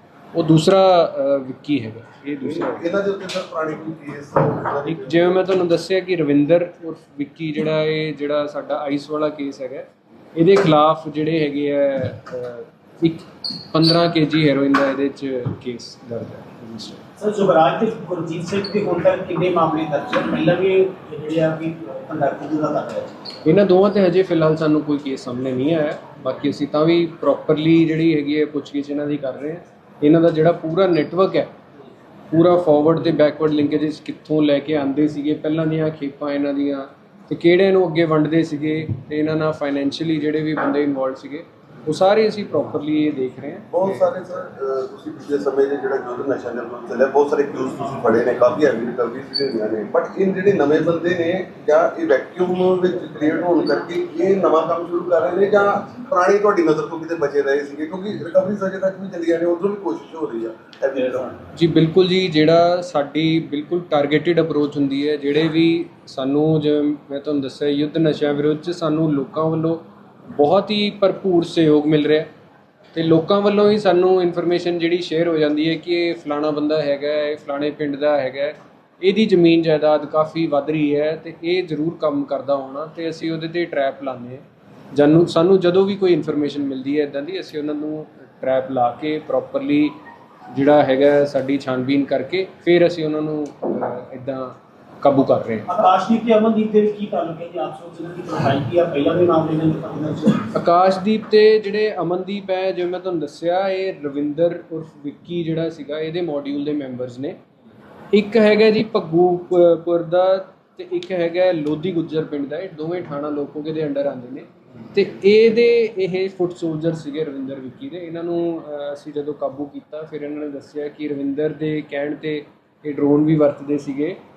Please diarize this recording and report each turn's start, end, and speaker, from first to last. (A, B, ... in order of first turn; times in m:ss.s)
0:00.3-0:02.9 A
0:02.4-0:05.4 B
0:04.9-0:17.0 A
0:17.2-0:23.2 C
0:23.4-0:31.5 A
0:32.3-0:44.1 A
0:43.7-1:01.4 B
1:01.5-1:09.8 A
1:10.3-1:12.3 A
1:12.9-1:30.0 A
1:30.5-1:35.7 A
1:35.7-1:40.5 C
1:40.5-1:47.4 A
1:48.1-2:04.2 A